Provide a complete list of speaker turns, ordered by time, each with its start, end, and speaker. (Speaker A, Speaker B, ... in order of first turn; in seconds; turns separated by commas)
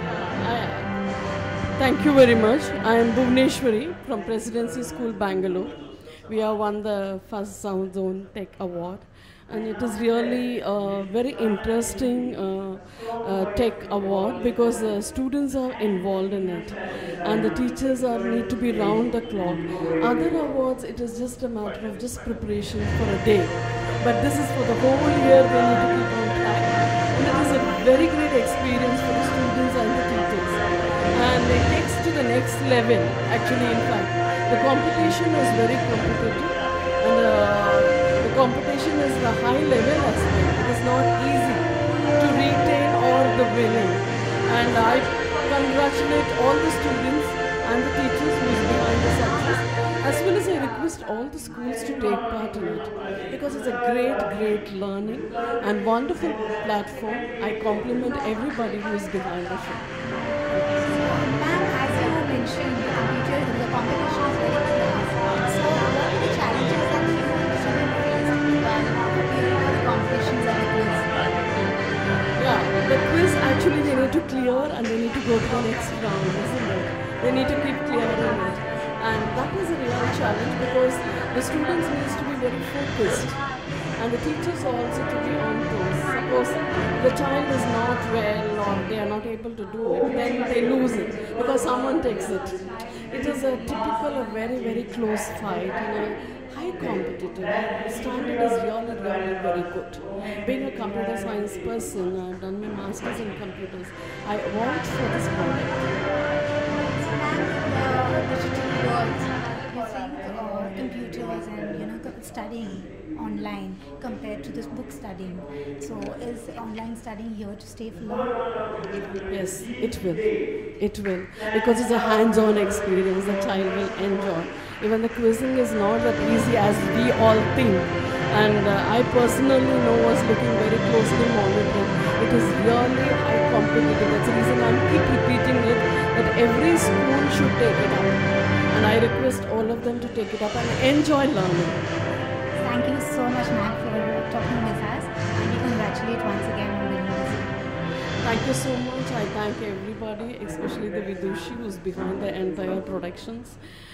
Speaker A: 0.3-0.9, Speaker A: 1.8-59.9, Speaker A: 60.5-61.0, Speaker B: 61.1-71.1, Speaker A: 72.4-105.8, Speaker B: 107.0-118.7, Speaker A: 119.3-141.8, Speaker B: 142.6-147.5, Speaker A: 148.2-153.6